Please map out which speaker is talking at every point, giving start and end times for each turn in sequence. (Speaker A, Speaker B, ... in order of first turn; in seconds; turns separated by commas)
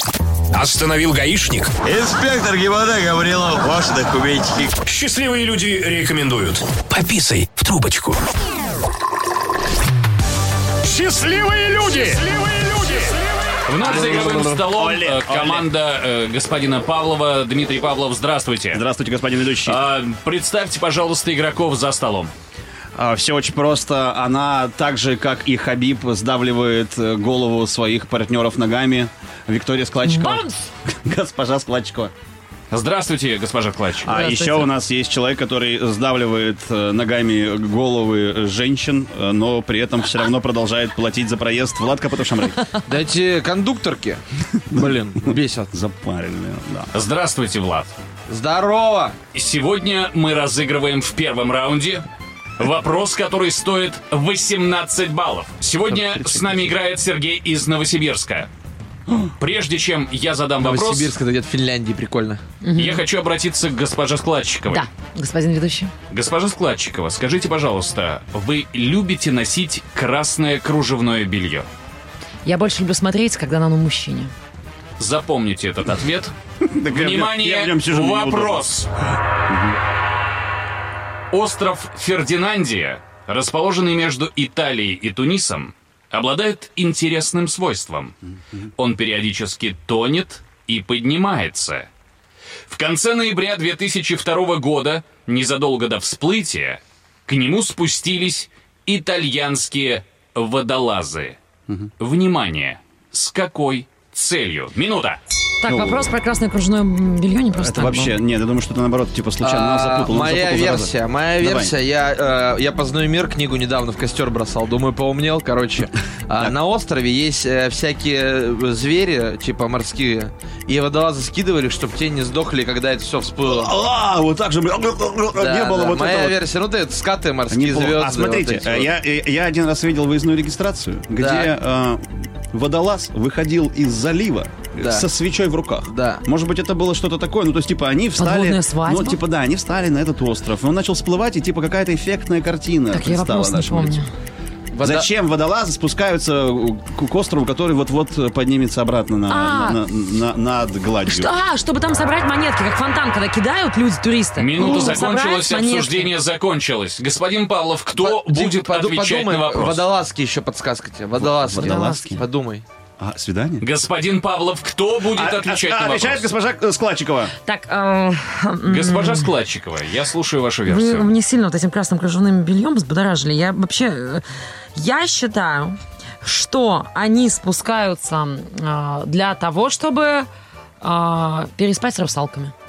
Speaker A: 0.5-1.7, Speaker B: 1.8-4.8, Speaker A: 4.8-8.2, Speaker A: 10.8-13.2, Speaker C: 13.7-18.8, Speaker D: 13.8-15.7, Speaker D: 18.7-19.8, Speaker C: 19.6-22.3, Speaker D: 22.9-32.1, Speaker E: 30.1-30.6, Speaker C: 32.7-34.2, Speaker D: 34.0-42.6, Speaker E: 34.1-34.7, Speaker F: 42.9-45.7, Speaker D: 44.7-46.9, Speaker C: 46.9-47.9, Speaker F: 48.3-49.2, Speaker C: 49.3-52.0, Speaker C: 52.6-58.5, Speaker C: 59.4-61.1, Speaker F: 60.6-62.4, Speaker E: 62.6-63.0, Speaker C: 62.8-64.8, Speaker E: 64.7-65.9, Speaker C: 66.1-71.7, Speaker E: 72.4-74.3, Speaker C: 75.0-76.3, Speaker D: 76.6-78.7, Speaker C: 76.9-78.9, Speaker D: 79.5-79.8, Speaker C: 81.3-88.2, Speaker C: 88.8-91.9, Speaker C: 92.7-101.4, Speaker C: 102.0-105.2, Speaker E: 105.6-108.2, Speaker D: 105.7-106.1, Speaker D: 107.5-111.7, Speaker F: 109.4-123.7, Speaker D: 123.4-126.4, Speaker F: 125.4-128.9, Speaker D: 127.5-144.0, Speaker F: 131.2-131.5, Speaker F: 134.8-135.1, Speaker F: 135.9-136.2, Speaker E: 138.2-139.2, Speaker E: 142.9-144.1, Speaker F: 144.7-145.1, Speaker D: 144.8-151.3, Speaker E: 149.3-149.8, Speaker E: 151.1-156.1, Speaker C: 154.4-159.8, Speaker F: 157.9-162.7, Speaker D: 161.2-162.2, Speaker E: 161.6-162.2, Speaker D: 163.0-163.7, Speaker C: 163.6-166.3, Speaker D: 165.1-167.3, Speaker E: 167.4-169.3, Speaker C: 168.7-171.1, Speaker E: 170.7-180.3, Speaker E: 180.8-182.5